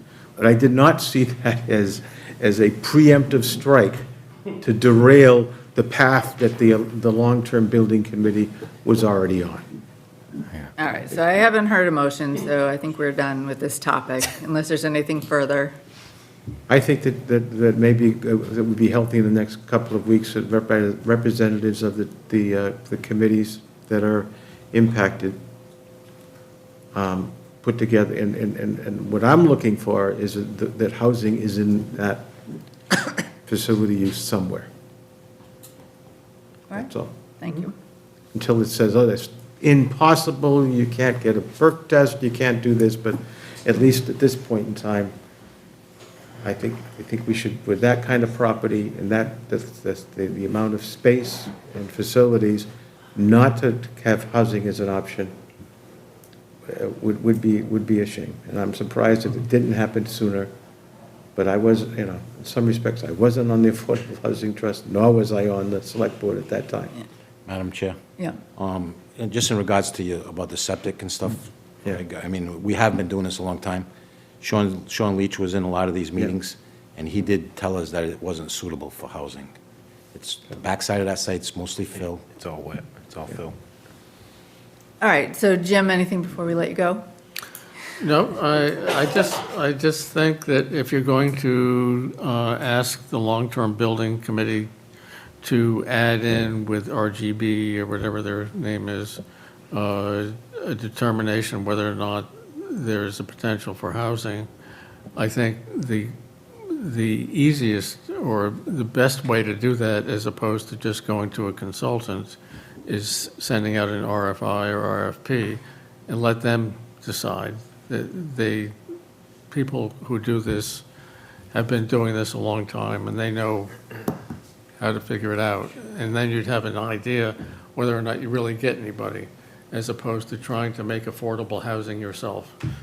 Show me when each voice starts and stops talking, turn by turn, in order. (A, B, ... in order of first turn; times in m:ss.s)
0:00.4-0:04.0 A
0:04.6-0:09.6 A
0:10.8-0:15.8 B
0:16.7-0:25.4 A
0:26.9-0:32.3 A
0:32.9-0:34.7 A
0:36.8-0:37.1 A
0:37.4-0:37.7 B
0:38.3-0:45.1 A
0:46.4-0:55.3 A
0:56.7-1:00.5 A
1:01.4-1:07.0 A
1:07.5-1:08.0 C
1:08.6-1:13.9 C
1:14.4-1:19.5 C
1:20.1-1:23.6 C
1:25.0-1:27.0 B
1:28.0-1:34.7 D
1:35.4-1:39.2 D
1:39.7-1:44.5 D
1:45.2-1:46.1 D
1:46.7-1:58.7 D
1:59.5-2:00.8 D
2:01.5-2:03.7 D
2:04.8-2:12.5 D